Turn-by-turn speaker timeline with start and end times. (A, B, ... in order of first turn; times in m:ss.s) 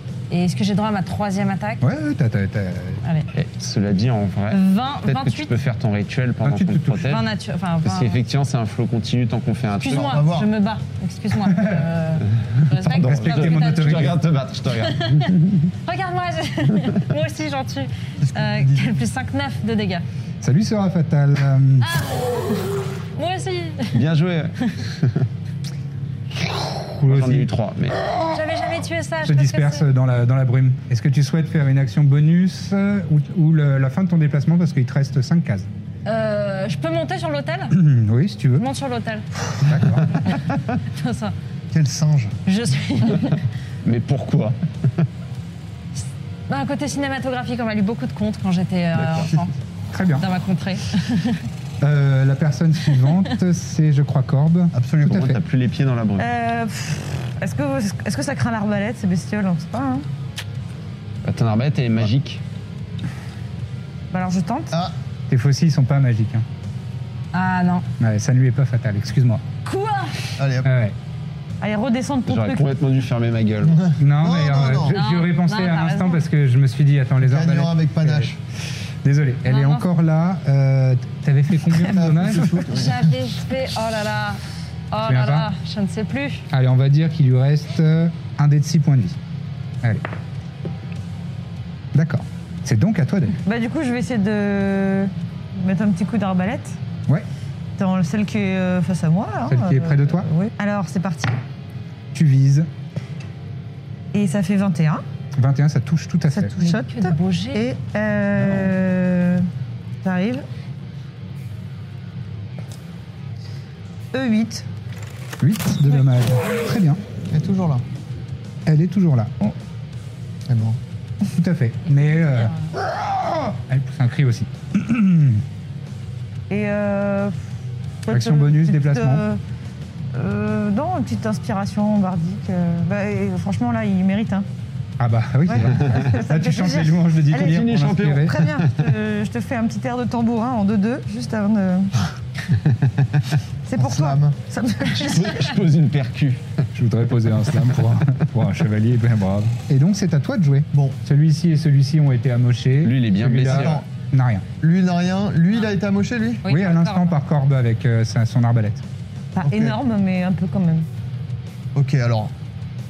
0:00.3-0:01.8 A
0:01.8-0:03.0 B
0:03.0-0:03.3 A
0:03.3-0:07.2 C
0:04.5-0:05.6 A
0:06.4-0:07.2 B
0:07.0-0:08.2 A
0:07.8-0:10.2 C
0:09.8-0:14.1 A
0:09.8-0:10.5 D
0:11.5-0:11.8 B
0:12.6-0:15.6 C
0:13.0-0:14.2 B
0:14.8-0:20.0 A
0:18.2-0:19.0 D
0:20.4-0:21.9 B
0:21.8-0:24.0 A
0:23.9-0:25.3 C
0:26.5-0:27.5 B
0:27.1-0:28.0 C
0:28.3-0:29.9 A
0:29.2-0:35.7 B
0:36.1-0:37.8 A
0:37.7-0:38.6 B
0:38.6-0:39.3 A
0:39.6-0:40.2 B
0:40.9-0:41.4 A
0:41.7-0:42.4 D
0:42.4-0:43.4 A
0:43.8-0:45.1 C
0:46.5-0:49.5 A
0:49.0-0:49.3 C
0:49.9-0:50.2 B
0:50.2-0:51.4 A
0:51.8-0:55.4 B
0:54.7-0:55.3 D
0:55.1-0:56.2 C
0:56.2-1:00.0 E
1:01.2-1:02.4 C
1:04.1-1:04.8 E
1:05.3-1:06.4 B
1:07.3-1:07.9 A
1:08.0-1:09.4 B
1:09.6-1:10.2 A
1:10.4-1:10.7 D
1:10.6-1:11.0 B
1:11.6-1:12.7 E
1:12.3-1:13.9 C
1:13.6-1:15.0 D
1:14.0-1:18.3 B
1:14.9-1:16.2 A
1:17.2-1:18.4 D
1:19.0-1:22.7 B
1:19.5-1:19.9 A
1:21.8-1:23.1 D
1:22.7-1:26.4 A
1:25.0-1:25.5 B
1:26.5-1:29.2 B
1:31.9-1:33.4 B
1:33.4-1:36.8 E
1:37.8-1:41.4 E
1:39.5-1:40.3 B
1:42.1-1:42.7 B
1:44.1-1:45.0 E
1:45.4-1:46.5 B
1:46.3-1:49.5 E
1:46.6-1:47.6 A
1:50.0-1:50.4 E
1:54.1-1:54.6 E
1:55.4-1:57.0 B
1:57.3-1:57.8 D
1:58.6-1:59.6 B
2:00.5-2:00.8 D
2:01.3-2:05.4 B
2:01.9-2:02.7 A
2:06.5-2:07.4 E
2:08.0-2:09.4 E
2:08.1-2:09.2 B
2:10.1-2:14.4 E
2:15.0-2:18.3 B
2:15.5-2:21.9 E
2:15.7-2:16.1 C
2:17.4-2:18.7 C
2:23.6-2:25.6 E
2:23.8-2:24.4 D
2:24.9-2:26.6 C
2:26.7-2:34.5 B
2:32.8-2:33.8 C
2:33.4-2:33.9 D
2:34.6-2:36.4 D
2:36.4-2:37.2 A
2:36.5-2:38.8 B
2:39.3-2:40.9 E
2:39.4-2:39.8 D
2:41.7-2:42.3 D